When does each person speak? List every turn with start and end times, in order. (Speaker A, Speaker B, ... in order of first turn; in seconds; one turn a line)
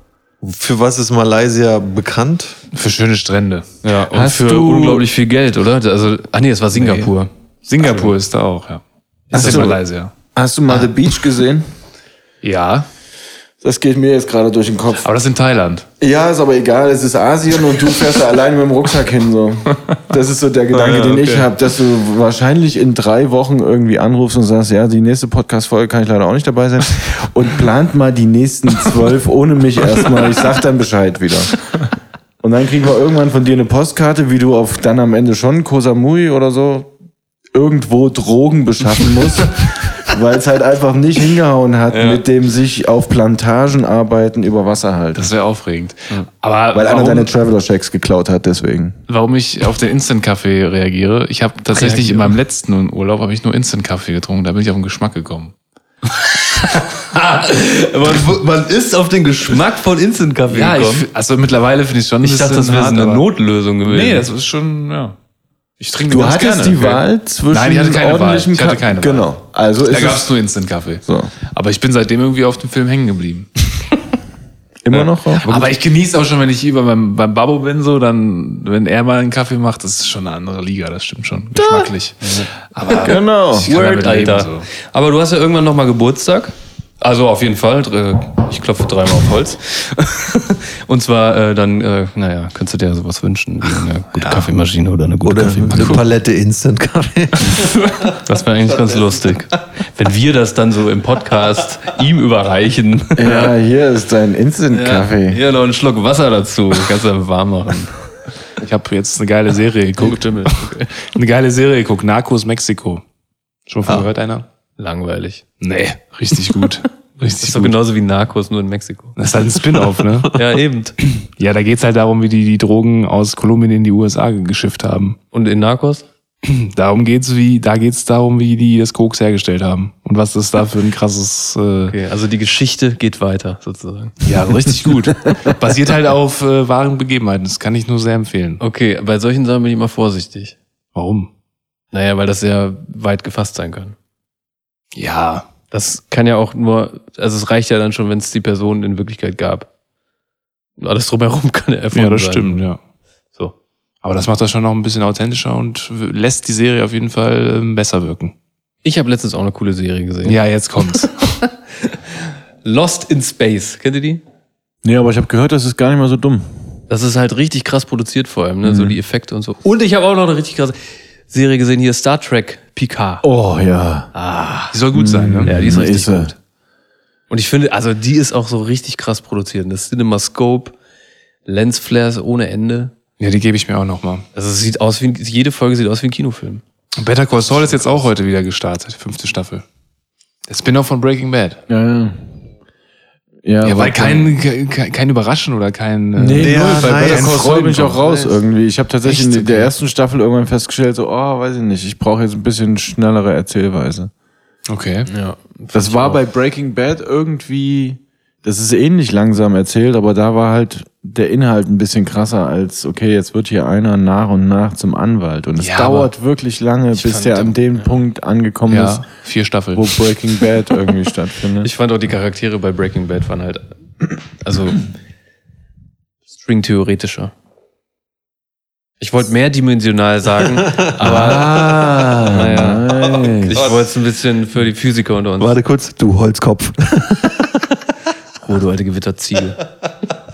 Speaker A: 0.4-2.5
Speaker B: 2.7-4.3
Speaker C: 3.8-7.3
Speaker D: 4.1-5.0
Speaker B: 6.7-7.1
Speaker B: 7.7-10.1
Speaker C: 7.8-8.1
Speaker C: 9.3-9.7
Speaker D: 9.3-9.8
Speaker D: 10.3-11.7
Speaker B: 12.4-12.9
Speaker D: 13.6-15.1
Speaker B: 15.0-15.8
Speaker D: 16.0-31.6
Speaker B: 20.9-21.5
Speaker D: 32.4-36.9
Speaker D: 37.5-45.3
Speaker C: 41.9-42.2
Speaker B: 45.1-47.3
Speaker D: 46.7-49.0
Speaker B: 49.1-55.5
Speaker C: 51.7-52.3
Speaker C: 56.1-61.1
Speaker B: 60.5-63.2
Speaker C: 62.2-64.3
Speaker B: 63.9-65.2
Speaker B: 65.8-69.3
Speaker D: 66.1-70.3
Speaker B: 69.8-73.5
Speaker D: 71.0-71.3
Speaker D: 74.8-75.5
Speaker B: 74.9-84.7
Speaker C: 75.4-75.7
Speaker C: 81.5-96.0
Speaker D: 83.0-83.7
Speaker B: 94.2-94.5
Speaker A: 95.2-98.2
Speaker B: 95.7-96.0
Speaker B: 97.6-98.0
Speaker C: 98.1-103.5
Speaker A: 98.7-99.3
Speaker D: 103.2-105.4
Speaker C: 104.7-108.0
Speaker B: 108.6-113.0
Speaker C: 110.0-111.0
Speaker B: 113.7-114.4
Speaker C: 114.8-115.6
Speaker B: 115.6-117.8
Speaker C: 117.3-119.2
Speaker B: 119.2-120.4
Speaker C: 120.3-120.9
Speaker B: 121.1-125.2
Speaker C: 125.3-126.0
Speaker B: 126.4-131.9
Speaker C: 131.9-134.3
Speaker B: 134.2-138.6
Speaker C: 138.6-140.6
Speaker B: 140.9-141.3
Speaker C: 141.9-143.9
Speaker B: 144.9-145.5
Speaker C: 145.7-149.7
Speaker C: 150.8-152.6
Speaker B: 151.9-152.8
Speaker B: 154.0-158.3
Speaker C: 158.8-160.4
Speaker B: 160.2-161.2
Speaker C: 160.9-162.0
Speaker C: 162.6-164.2
Speaker D: 164.8-166.4
Speaker C: 166.9-170.8
Speaker D: 168.6-169.0
Speaker C: 171.3-173.2
Speaker D: 173.2-174.1
Speaker C: 174.1-174.8
Speaker B: 174.7-175.7
Speaker D: 174.9-176.3
Speaker C: 175.4-176.4
Speaker C: 177.3-180.7
Speaker C: 181.4-182.9
Speaker B: 183.2-184.2
Speaker C: 184.3-186.6
Speaker B: 187.0-189.6
Speaker B: 190.5-191.6
Speaker D: 191.7-192.2
Speaker D: 193.4-194.4
Speaker B: 193.6-198.1
Speaker D: 196.2-204.1
Speaker A: 196.3-197.5
Speaker B: 199.0-199.7
Speaker B: 204.7-205.1
Speaker C: 205.1-206.2
Speaker D: 205.7-219.1
Speaker B: 215.6-216.1
Speaker C: 216.9-217.9
Speaker B: 218.7-220.0
Speaker D: 219.7-221.7
Speaker C: 221.6-223.6
Speaker C: 224.4-224.9
Speaker C: 226.3-227.3
Speaker C: 229.0-235.6
Speaker D: 231.0-233.6
Speaker A: 233.5-233.8
Speaker A: 235.4-237.5
Speaker C: 238.4-239.6